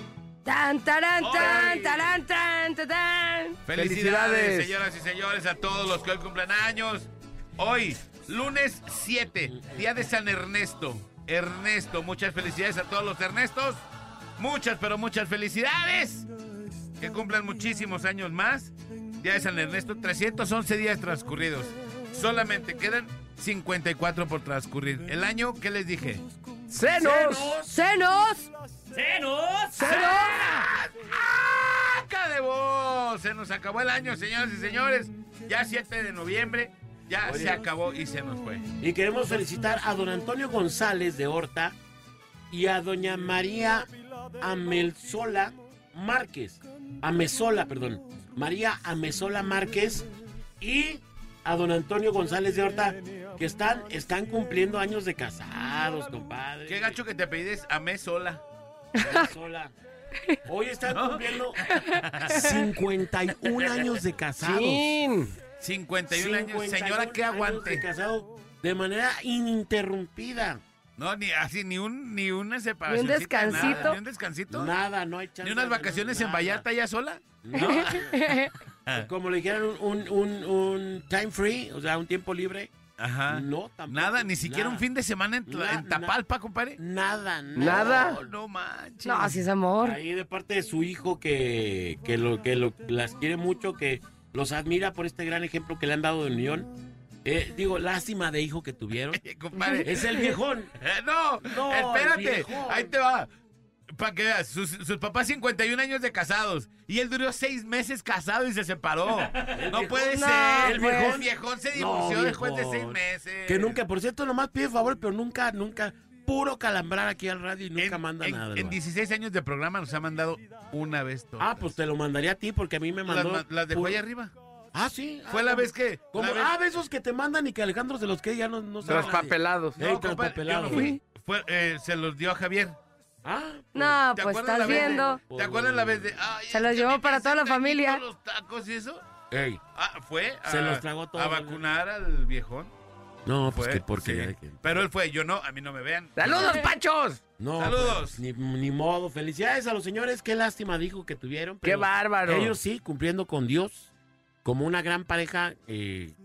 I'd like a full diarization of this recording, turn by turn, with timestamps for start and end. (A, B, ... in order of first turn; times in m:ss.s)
0:00.4-0:03.6 A
0:01.2-0:02.1 B
0:03.6-0:13.8 B
0:03.7-0:04.8 C
0:09.5-0:09.8 D
0:14.4-0:16.3 B
0:17.0-0:26.2 B
0:26.7-0:27.5 C
0:26.9-0:27.8 D
0:27.7-0:28.5 A
0:29.0-0:38.7 B
0:29.8-0:30.6 A
0:37.2-0:37.6 D
0:38.8-0:41.8 D
0:42.5-0:50.1 D
0:50.6-0:57.0 D
0:56.7-0:58.4 B
0:59.0-0:59.7 D
1:00.4-1:01.6 D
1:00.9-1:02.6 B
1:02.2-1:05.0 D
1:04.4-1:05.3 C
1:05.6-1:07.8 B
1:06.1-1:10.6 D
1:11.0-1:14.7 B
1:12.9-1:14.0 A
1:13.5-1:14.0 D
1:14.5-1:16.6 D
1:15.4-1:17.7 B
1:17.4-1:18.2 D
1:17.6-1:18.5 A
1:18.9-1:22.7 D
1:23.0-1:26.8 B
1:23.3-1:24.8 D
1:25.5-1:26.2 D
1:26.8-1:28.3 D
1:27.6-1:28.2 C
1:27.6-1:29.4 B
1:29.0-1:30.0 A
1:29.8-1:36.7 D
1:37.2-1:39.2 D
1:39.1-1:43.3 B
1:39.6-1:39.8 A
1:39.8-1:40.7 D
1:41.4-1:42.9 D
1:44.0-1:53.8 B
1:49.6-1:58.8 D
1:50.1-1:51.2 A
1:57.8-2:01.7 B
2:01.4-2:04.0 D
2:03.0-2:04.3 B
2:04.7-2:11.0 D
2:05.3-2:06.5 B
2:08.8-2:12.8 B
2:08.8-2:09.8 C
2:13.2-2:14.0 D
2:13.7-2:15.2 A
2:14.1-2:19.0 B
2:14.5-2:16.2 D
2:16.5-2:18.0 A
2:19.3-2:19.6 D
2:19.7-2:22.7 B
2:20.4-2:21.6 D
2:23.2-2:24.8 D
2:23.5-2:26.6 B
2:26.2-2:27.2 C
2:27.4-2:33.9 D
2:27.6-2:28.2 B
2:31.6-2:32.6 C
2:34.4-2:36.1 D